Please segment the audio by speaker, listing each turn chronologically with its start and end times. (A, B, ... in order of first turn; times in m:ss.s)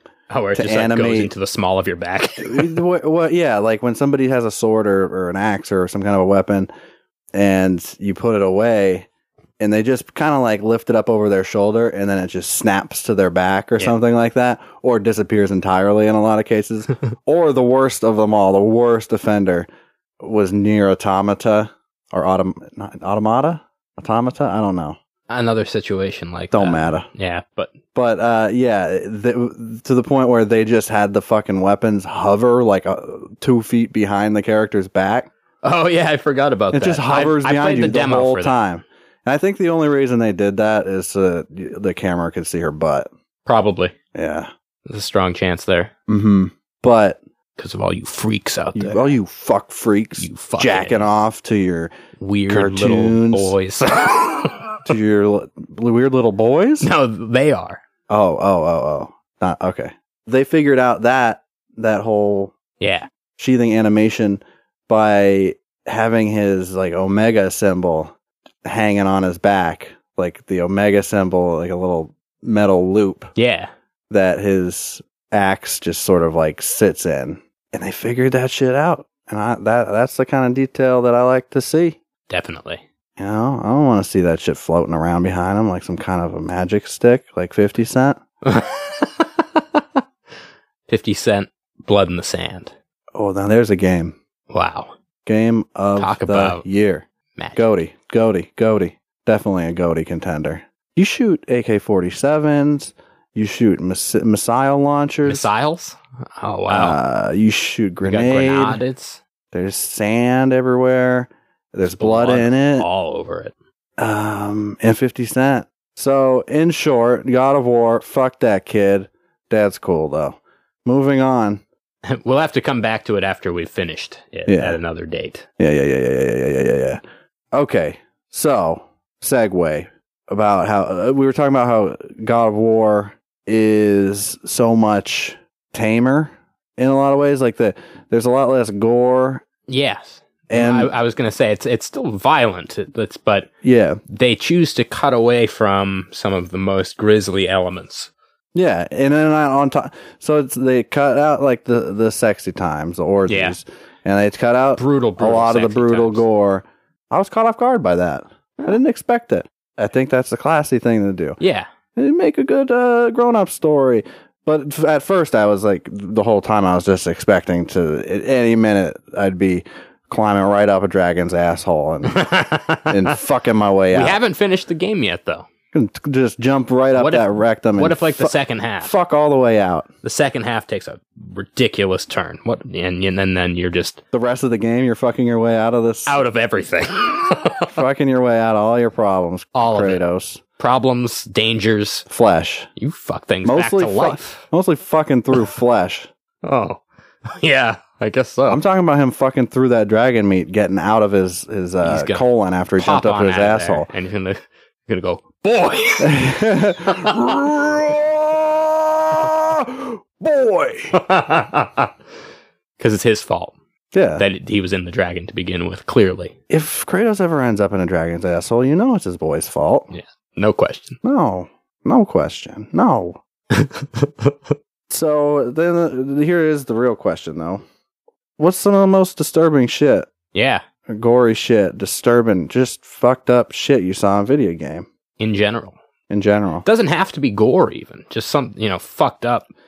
0:00.3-0:02.8 A
0:00.5-0:01.3 B
0:02.4-0:06.7 B
0:07.3-0:09.1 B
0:09.6-0:19.7 B
0:20.2-0:25.0 B
0:25.3-0:27.7 A
0:26.5-0:27.1 B
0:27.9-0:35.3 B
0:35.6-0:38.6 A
0:36.7-0:43.1 B
0:43.4-0:43.9 A
0:44.1-0:44.5 B
0:44.8-0:45.9 A
0:46.1-0:47.2 B
0:47.6-0:49.2 A
0:48.7-0:51.9 B
0:50.2-0:51.0 A
0:52.2-0:54.8 A
0:52.5-0:53.5 B
0:54.8-0:56.9 B
0:56.8-0:57.8 A
0:58.1-1:02.5 B
1:02.8-1:03.1 A
1:03.4-1:13.3 B
1:13.4-1:13.7 A
1:14.1-1:22.0 B
1:22.3-1:22.8 A
1:23.2-1:28.2 B
1:28.4-1:30.0 A
1:30.9-1:32.7 A
1:33.1-1:34.1 B
1:34.5-1:34.9 A
1:35.2-1:45.5 B
1:36.0-1:36.6 A
1:37.4-1:37.7 A
1:45.2-1:47.0 A
1:46.7-1:48.8 B
1:48.0-1:49.2 A
1:49.5-1:52.9 B
1:51.9-1:53.5 A
1:54.0-2:01.6 B
2:02.0-2:05.4 A
2:04.5-2:04.8 B
2:05.6-2:07.0 B
2:07.5-2:19.4 B
2:19.7-2:23.5 A
2:20.5-2:20.9 B
2:23.6-2:24.0 B
2:24.1-2:28.1 A
2:28.5-2:41.4 B
2:33.3-2:33.6 A
2:34.8-2:36.2 A
2:41.4-2:41.7 A
2:42.0-2:52.2 B
2:52.0-2:53.2 A
2:52.9-2:54.2 B
2:53.9-2:55.4 A
2:55.7-2:59.9 B
2:56.9-2:58.9 A
3:00.0-3:04.0 A
3:04.1-3:06.2 B
3:06.1-3:07.7 A
3:07.7-3:10.4 B
3:09.5-3:10.0 A
3:10.6-3:12.1 A
3:12.1-3:12.7 B
3:12.8-3:14.4 A
3:13.4-3:16.1 B
3:16.4-3:18.6 A
3:18.5-3:23.9 B
3:21.8-3:22.2 A
3:22.8-3:27.5 A
3:26.0-3:31.0 B
3:30.9-3:31.9 A
3:32.8-3:33.5 A
3:33.9-3:34.2 B
3:34.2-3:36.3 A
3:36.5-3:39.9 B
3:39.9-3:41.0 A
3:41.0-3:43.2 B
3:43.5-3:44.3 A
3:44.9-3:47.6 B
3:48.4-3:50.1 B
3:50.3-3:50.6 A
3:50.9-3:54.9 B
3:55.2-3:55.8 A
3:56.1-3:56.6 B
3:56.6-3:59.5 A